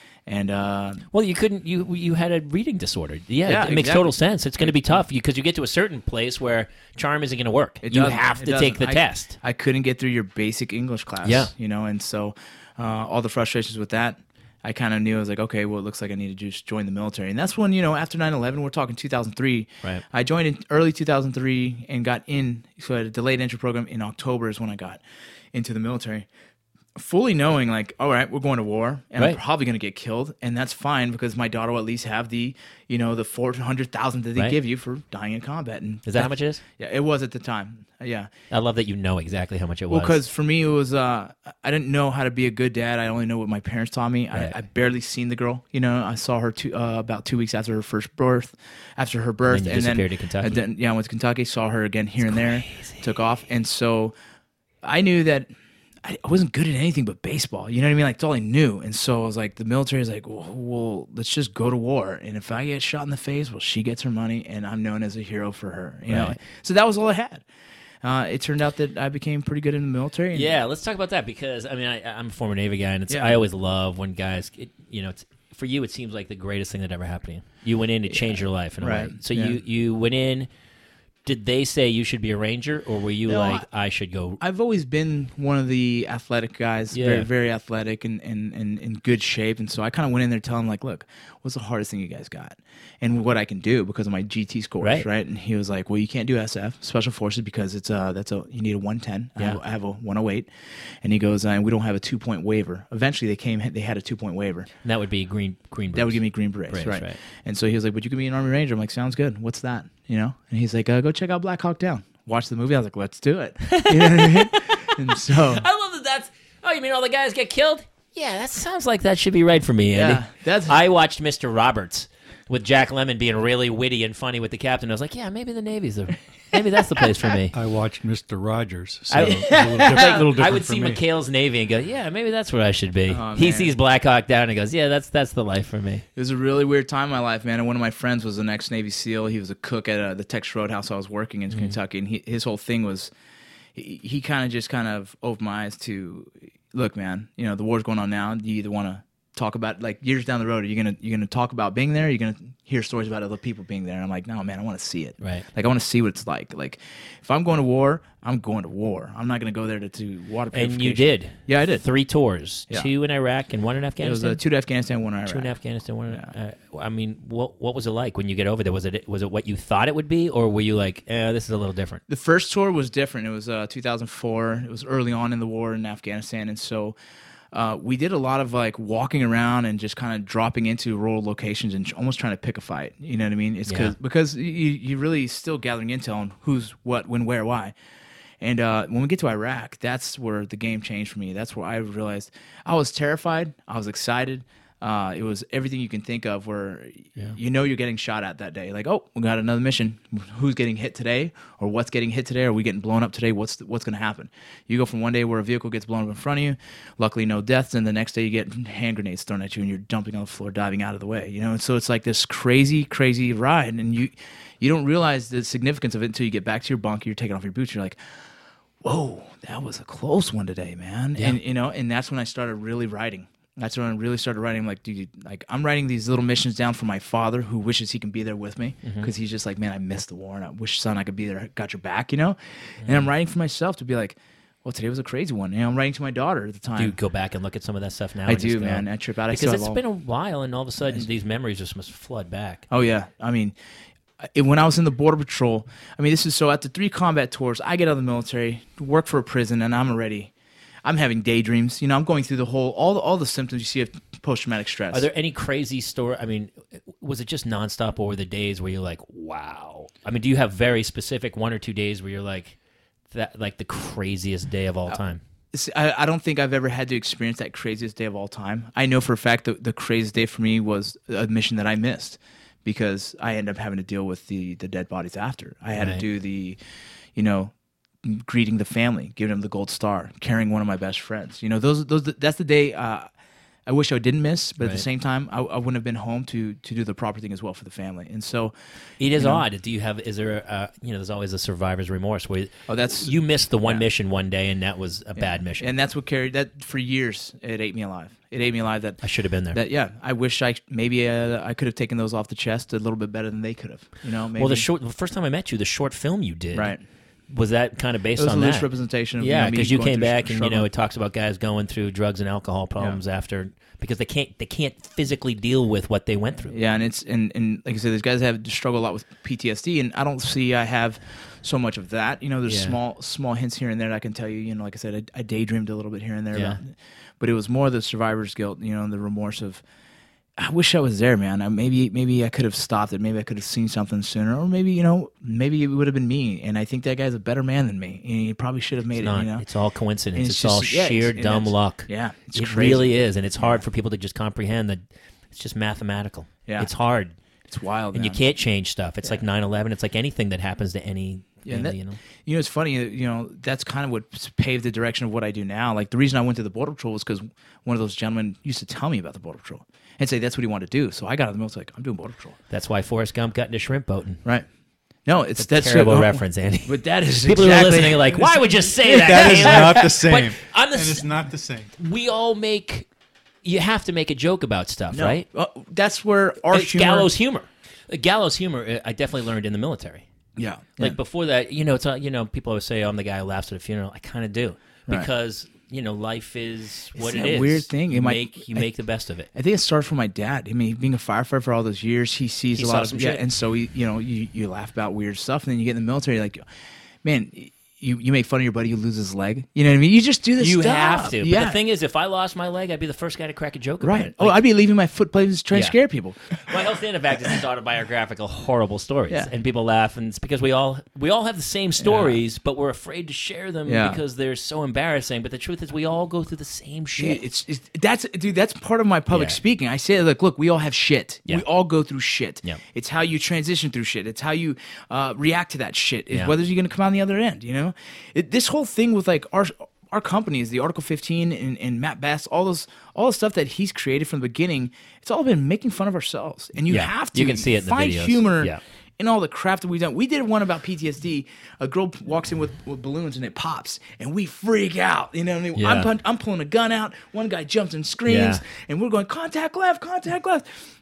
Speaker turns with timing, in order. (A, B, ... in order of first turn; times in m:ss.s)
0:00.3-0:01.1 A
0:01.1-0:09.4 B
0:03.4-0:04.8 A
0:07.8-0:25.0 A
0:11.2-0:11.5 B
0:25.5-0:26.3 A
0:27.0-0:38.3 A
0:36.1-0:36.6 B
0:38.5-0:40.2 B
0:39.9-0:54.2 A
0:44.3-0:44.6 B
0:49.5-0:50.6 B
0:52.2-0:53.1 B
0:54.8-0:55.5 A
0:56.0-1:07.4 A
1:06.1-1:06.4 B
1:08.0-1:10.5 A
1:10.3-1:20.5 B
1:13.1-1:13.4 A
1:18.1-1:19.6 A
1:21.2-1:24.4 B
1:23.3-1:23.7 A
1:24.4-1:40.5 A
1:26.9-1:27.3 B
1:34.8-1:35.1 B
1:41.0-1:44.7 A
1:44.8-1:47.2 B
1:45.9-1:55.6 A
1:53.7-2:07.6 B
2:00.0-2:00.8 A
2:07.5-2:11.0 C
2:09.1-2:16.0 B
2:09.2-2:10.2 A
2:13.1-2:13.7 A
2:16.2-2:23.1 A
2:21.5-2:21.8 B
2:23.8-2:41.8 A
2:35.2-2:35.5 B
2:40.5-2:44.4 B
2:44.0-2:45.6 A
2:45.3-2:52.0 B
2:52.1-2:57.0 A
2:57.5-3:07.7 A
3:03.7-3:04.0 B
3:08.4-3:38.0 A
3:38.8-3:57.0 A
3:48.8-3:49.1 B
3:56.8-4:02.6 B
3:58.3-3:59.8 A
4:02.7-4:03.6 A
4:04.2-4:10.3 A
4:10.8-4:15.1 A
4:14.9-4:22.6 B
4:23.1-4:25.2 B
4:25.5-4:36.6 A
4:35.8-4:36.0 B
4:37.2-4:43.1 A
4:43.7-4:48.5 A
4:49.0-4:55.7 B
4:49.2-4:49.4 A
4:52.7-4:53.9 A
4:55.2-5:04.7 A
4:59.0-4:59.6 B
5:04.4-5:06.8 B
5:06.5-5:06.8 A
5:07.3-5:16.6 B
5:08.2-5:10.7 A
5:16.5-5:29.6 A
5:22.5-5:22.8 B
5:26.3-5:26.6 B
5:30.4-5:39.5 A
5:39.0-5:44.8 B
5:40.2-5:43.6 A
5:45.3-5:47.2 B
5:47.5-5:48.2 A
5:47.9-5:52.0 B
5:51.5-6:02.4 A
6:02.5-6:04.2 B
6:05.1-6:09.9 A
6:05.4-6:11.1 B
6:08.8-6:11.7 C
6:11.8-6:12.9 B
6:13.4-6:15.2 B
6:14.9-6:17.1 A
6:16.5-6:20.1 B
6:20.4-6:21.0 A
6:20.8-6:29.3 B
6:27.0-6:28.7 A
6:29.3-6:36.4 A
6:32.5-6:33.2 B
6:37.0-6:41.6 A
6:40.4-6:44.4 B
6:43.8-6:46.6 A
6:46.4-6:57.2 B
6:51.8-6:52.2 A
6:53.7-6:54.0 A
6:57.0-7:30.6 A
6:59.1-6:59.4 B
7:16.7-7:18.6 B
7:25.6-7:25.9 B
7:28.1-7:28.4 B